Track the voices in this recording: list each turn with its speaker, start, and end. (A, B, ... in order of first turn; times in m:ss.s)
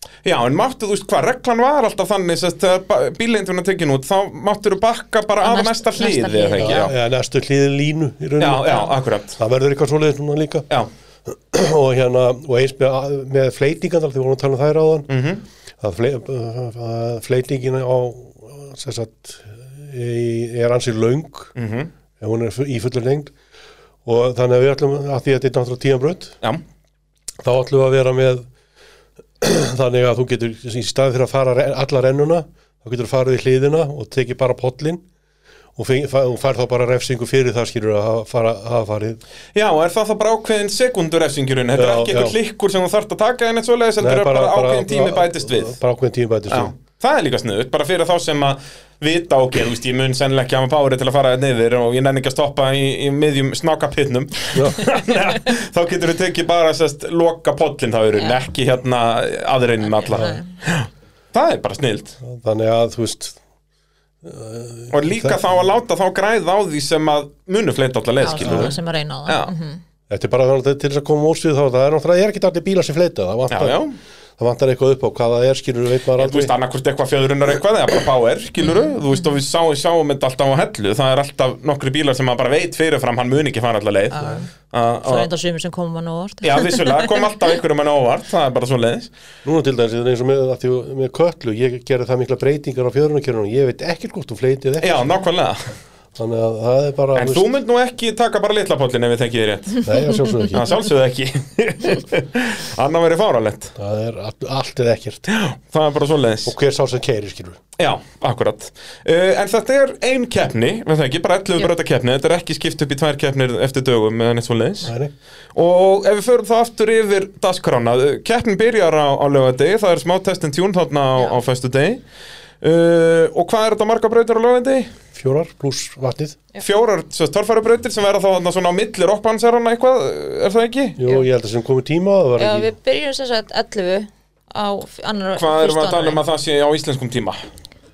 0:00.2-0:06.9 A
0:05.4-0:06.9 B
0:06.6-0:10.6 C
0:08.4-0:09.4 A
0:11.3-0:15.1 C
0:15.1-0:15.4 A
0:15.8-0:21.5 C
0:21.6-0:21.9 A
0:22.2-0:23.3 C
0:24.0-0:26.4 C
0:27.4-0:28.5 C
0:29.4-0:35.0 C
0:35.8-0:39.2 C
0:39.5-0:45.8 A
0:41.7-0:42.4 C
0:44.0-0:46.7 C
0:46.5-1:02.2 A
0:54.5-0:54.8 C
0:59.8-1:00.5 B
1:00.1-1:00.4 C
1:02.2-1:03.4 C
1:04.2-1:05.4 C
1:04.9-1:09.5 A
1:08.2-1:09.8 B
1:08.4-1:08.7 C
1:10.1-1:13.8 C
1:13.5-1:14.0 A
1:14.4-1:16.5 C
1:16.2-1:25.3 A
1:18.6-1:18.9 B
1:24.1-1:24.5 B
1:25.0-1:27.2 B
1:26.4-1:29.1 A
1:29.4-1:35.0 C
1:34.8-1:35.6 A
1:36.2-1:37.5 C
1:37.1-1:39.9 A
1:39.8-1:40.7 C
1:40.5-1:43.7 A
1:43.8-1:45.3 C
1:45.3-1:46.5 A
1:46.4-1:47.6 C
1:47.8-1:54.9 A
1:54.8-1:55.1 C
1:55.5-2:02.0 A
2:02.6-2:04.9 A
2:05.1-2:06.4 C
2:06.6-2:11.0 A
2:11.0-2:12.7 C
2:12.4-2:16.2 B
2:15.4-2:17.4 A